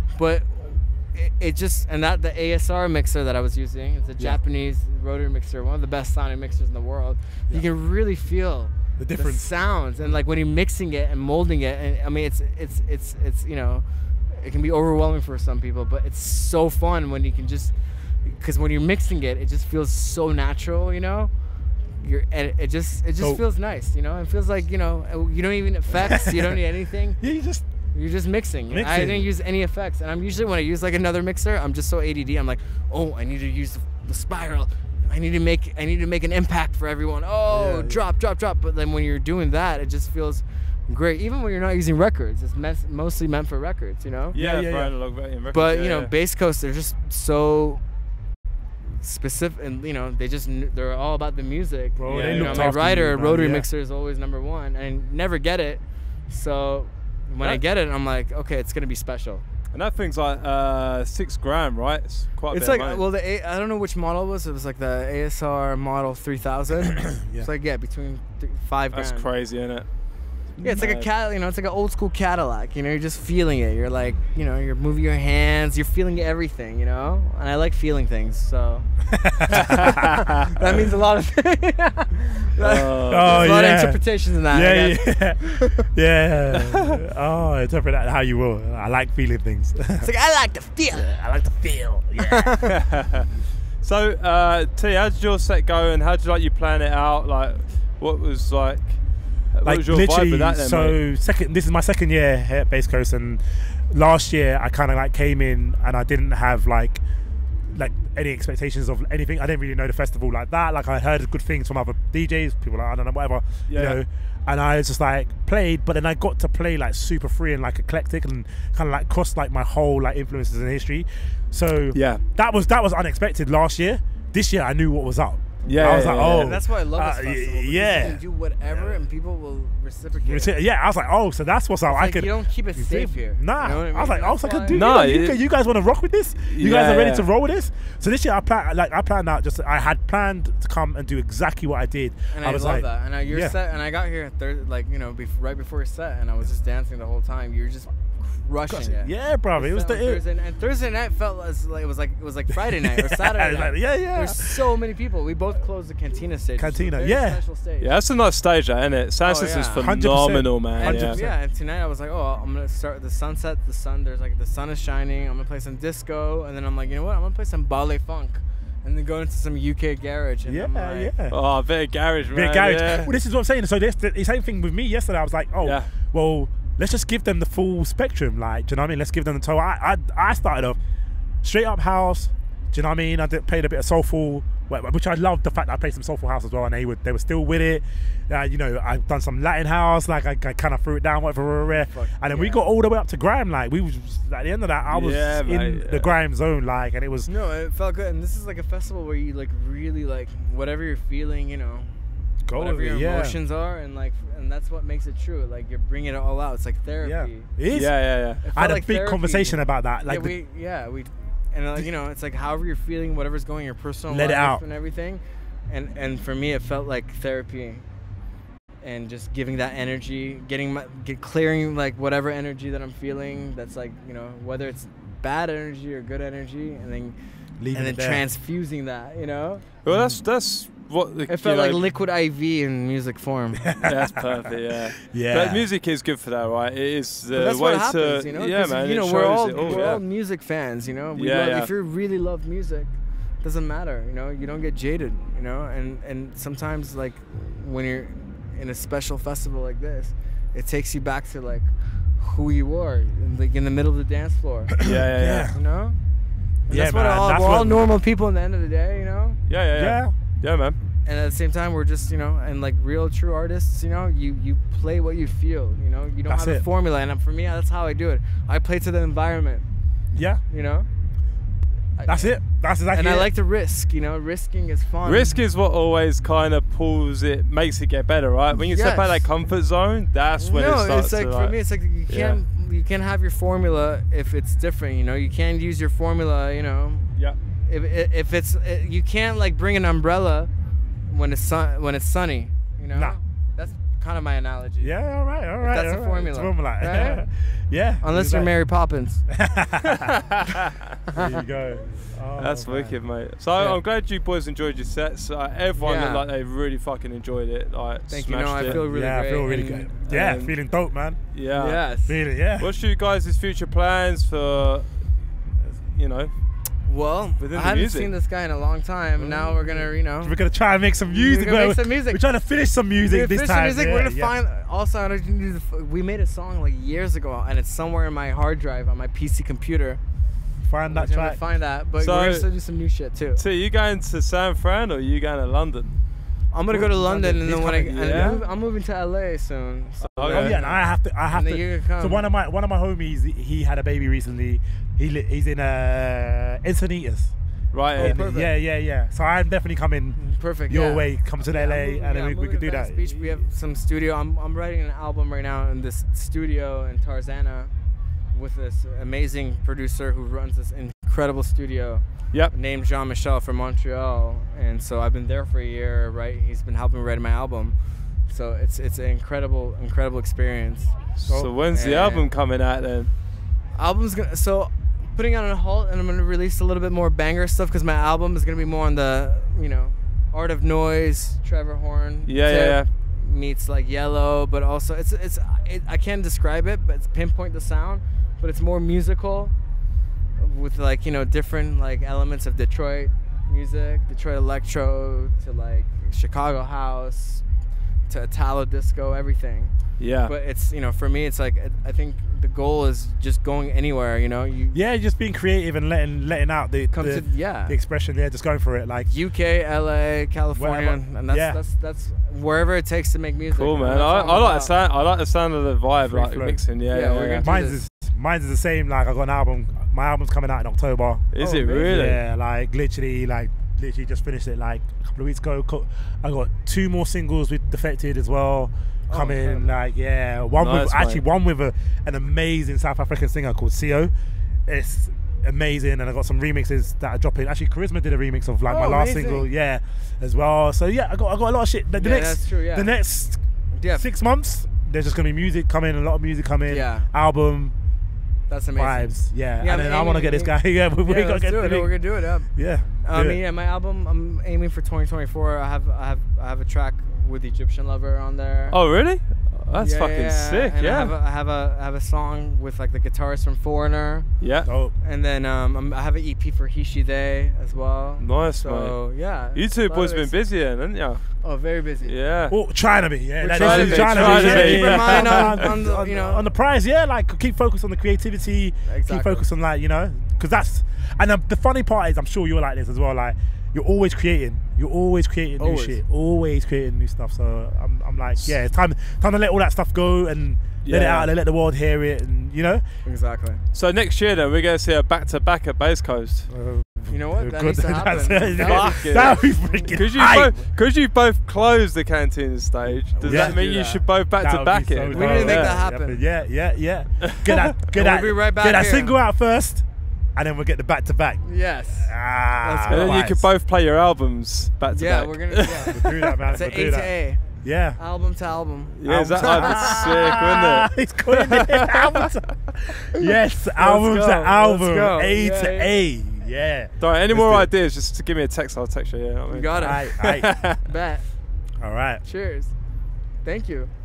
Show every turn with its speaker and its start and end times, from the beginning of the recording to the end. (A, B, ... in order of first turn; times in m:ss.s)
0:00.2-0:21.3 A
0:09.0-0:09.5 B
0:22.0-0:27.2 A
0:26.1-0:26.6 B
0:27.2-0:27.7 B
0:27.9-0:44.4 A
0:28.7-0:29.3 B
0:37.5-0:38.0 B
0:44.3-0:44.9 B
0:44.3-0:46.1 C
0:45.5-0:47.8 A
0:49.0-0:59.4 A
0:52.0-0:53.7 B
0:52.1-0:52.7 C
0:59.7-1:03.0 C
1:02.5-1:09.3 A
1:07.0-1:07.5 B
1:08.9-1:09.9 C
1:10.6-1:18.9 A
1:10.6-1:11.1 C
1:19.1-1:20.1 B
1:19.7-1:20.5 C
1:19.8-1:25.9 A
1:22.6-1:23.5 C
1:23.1-1:30.1 B
1:30.0-1:31.1 A
1:30.9-1:32.6 B
1:32.2-1:32.8 A
1:32.8-1:33.3 C
1:33.8-1:41.0 C
1:39.6-1:47.0 B
1:47.7-2:09.0 B
1:53.7-1:54.0 C
2:01.9-2:02.2 C
2:05.6-2:10.5 A
2:05.7-2:06.6 C
2:10.2-2:23.6 B
2:11.9-2:14.8 A
2:14.7-2:15.4 C
2:16.5-2:17.3 C
2:22.3-2:37.9 A
2:28.7-2:30.2 B
2:32.8-2:34.6 B
2:36.6-2:37.4 B
2:37.8-2:41.3 C
2:39.2-2:39.9 A
2:39.8-2:41.3 B
2:40.8-2:51.1 A
2:50.5-2:51.4 B
2:51.3-2:53.1 C
2:52.3-3:00.8 B
2:55.6-2:55.9 C
3:01.4-3:17.3 B
3:11.8-3:12.6 A
3:14.9-3:16.1 C
3:17.3-3:22.0 A
3:22.5-3:23.4 B
3:22.5-3:27.5 A
3:27.0-3:30.4 B
3:27.7-3:28.4 C
3:28.4-3:37.8 A
3:34.1-3:34.6 B
3:38.8-3:47.2 A
3:47.6-3:48.2 B
3:47.7-3:49.7 A
3:49.8-3:51.9 C
3:49.9-3:50.2 B
3:51.3-3:53.7 A
3:53.6-3:55.7 B
3:53.8-4:00.0 C
3:57.3-4:14.8 A
3:59.6-3:59.9 B
4:01.2-4:01.7 C
4:14.8-4:15.6 B
4:14.8-4:15.5 C
4:15.5-4:16.0 A
4:16.7-4:19.4 A
4:16.7-4:17.8 B
4:19.5-4:20.8 C
4:19.7-4:20.1 B
4:21.1-4:29.7 A
4:26.3-4:26.6 B
4:30.1-4:30.4 B
4:30.5-4:30.9 A
4:32.0-4:32.3 A
4:32.1-4:33.3 B
4:32.9-4:35.4 A
4:35.0-4:42.4 C
4:38.6-4:39.2 A
4:40.4-4:47.1 A
4:47.7-4:50.5 A
4:51.1-4:54.9 A
4:52.9-4:53.2 B
4:54.8-4:58.5 B
4:55.6-4:57.2 A
4:58.0-4:59.2 A
4:59.3-5:00.1 B
4:59.9-5:00.8 C
5:01.1-5:03.0 B
5:02.4-5:08.8 C
5:05.8-5:06.3 A
5:08.1-5:09.9 A
5:08.6-5:11.2 B
5:10.1-5:10.6 C
5:11.3-5:11.8 C
5:11.5-5:12.2 A
5:12.1-5:12.7 B
5:12.6-5:15.2 C
5:15.8-5:16.3 C
5:16.9-5:20.4 A
5:17.4-5:18.1 C
5:19.2-5:24.3 B
5:21.1-5:22.2 A
5:23.1-5:30.0 A
5:30.6-5:31.4 B
5:30.9-5:33.4 A
5:32.0-5:32.5 C
5:33.4-5:36.0 C
5:36.5-5:42.3 A
5:36.7-5:38.4 B
5:37.8-5:38.4 C
5:40.2-5:40.6 C
5:40.3-5:47.3 B
5:47.7-5:48.2 C
5:47.9-5:53.4 B
5:48.0-5:48.5 A
5:50.2-5:57.7 A
5:58.3-6:11.0 A
6:11.2-6:13.1 C
6:11.7-6:12.3 A
6:13.8-6:29.5 A
6:22.3-6:22.9 C
6:30.4-6:37.4 A
6:38.1-6:44.8 A
6:40.0-6:40.3 C
6:44.7-6:49.1 B
6:46.9-6:47.8 A
6:49.1-6:54.7 A
6:50.6-6:51.6 B
6:53.5-6:57.5 C
6:56.0-6:56.6 B
6:56.9-6:57.8 A
6:57.4-7:14.1 B
7:01.3-7:02.2 C
7:01.4-7:02.0 A
7:09.1-7:09.8 A
7:10.6-7:11.2 C
7:14.7-7:23.4 B
7:18.7-7:19.5 A
7:22.0-7:22.9 A
7:23.7-7:24.1 A
7:23.9-7:27.8 B
7:26.7-7:27.1 A
7:28.5-7:38.8 A
7:28.8-7:31.9 B
7:32.5-7:33.4 B
7:38.7-7:41.1 C
7:39.8-7:44.3 A
7:44.4-7:44.7 C
7:44.6-7:44.9 B
7:45.0-7:50.3 A
7:48.2-7:51.2 C
7:51.4-7:52.2 A
7:52.0-7:52.6 C
7:52.5-8:12.8 B
7:53.4-7:56.5 A
7:53.5-7:55.7 C
7:58.9-7:59.4 A
8:05.6-8:06.0 A
8:10.8-8:11.3 C
8:13.0-8:13.6 A
8:13.7-8:16.5 C
8:16.5-8:20.6 B
8:17.1-8:19.9 A
8:18.6-8:25.8 C
8:23.2-8:24.0 A
8:23.2-8:31.4 B
8:25.1-8:26.2 A
8:27.3-8:27.6 C
8:27.9-8:29.2 A
8:31.4-8:33.2 A
8:32.0-8:33.5 B
8:32.9-8:36.0 C
8:34.9-8:37.4 A
8:35.7-8:37.1 B
8:37.6-8:38.0 B
8:38.0-8:40.4 A
8:39.0-8:42.3 C
8:39.0-8:47.7 B
8:43.8-8:46.0 A
8:47.0-8:50.8 C
8:49.5-8:50.2 A
8:49.8-8:50.6 B
8:50.8-8:51.3 A
8:51.8-8:52.2 B
8:52.2-8:52.7 A
8:53.4-8:53.9 A